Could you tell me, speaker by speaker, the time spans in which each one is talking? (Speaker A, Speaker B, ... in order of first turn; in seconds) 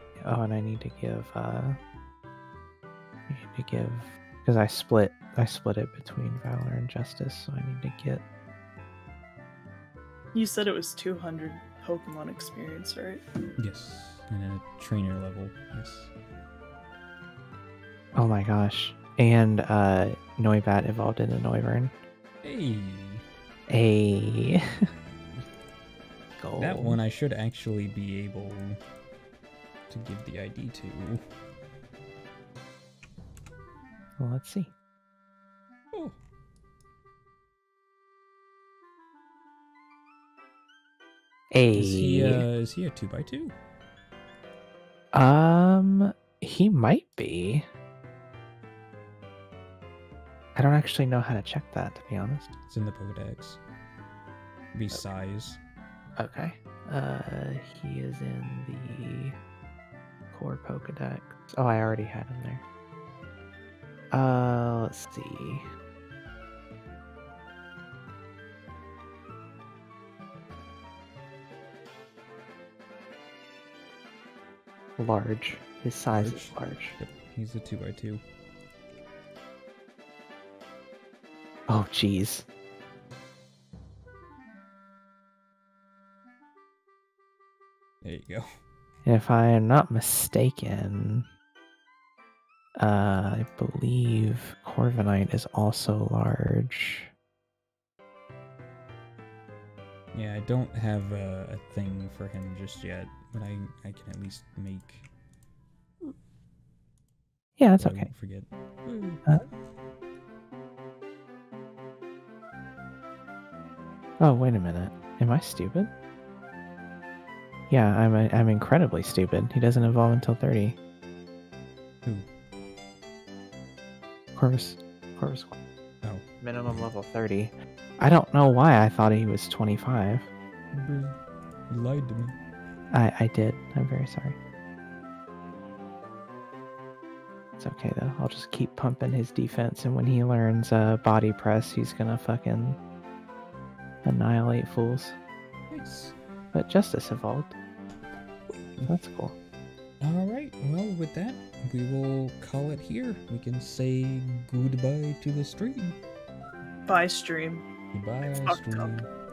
Speaker A: 0.2-1.8, 3.3-8.2, 18.1-21.9, 23.7-24.8, 26.4-27.0, 34.2-34.7, 41.5-42.4, 45.1-47.6, 50.5-52.5, 56.1-59.4, 60.3-62.6, 64.1-65.6, 75.0-77.0, 81.7-82.5, 89.0-91.3, 92.8-97.1, 107.6-108.1, 114.2-115.9, 117.7-120.8, 124.3-125.5, 126.4-130.3, 132.9-134.4, 137.6-142.8, 144.0-145.2, 146.5-147.5, 148.9-149.3
Speaker B: 10.3-13.2, 156.8-157.6, 158.2-158.9
Speaker C: 13.6-16.1, 22.4-23.2, 26.6-28.8, 29.9-31.2, 35.9-36.2, 41.7-43.5, 52.7-53.6, 54.7-55.6, 76.2-78.2, 88.0-88.5, 100.1-105.1, 107.8-109.3, 130.7-131.2, 131.7-132.3, 145.7-146.2, 150.0-156.0, 157.9-159.1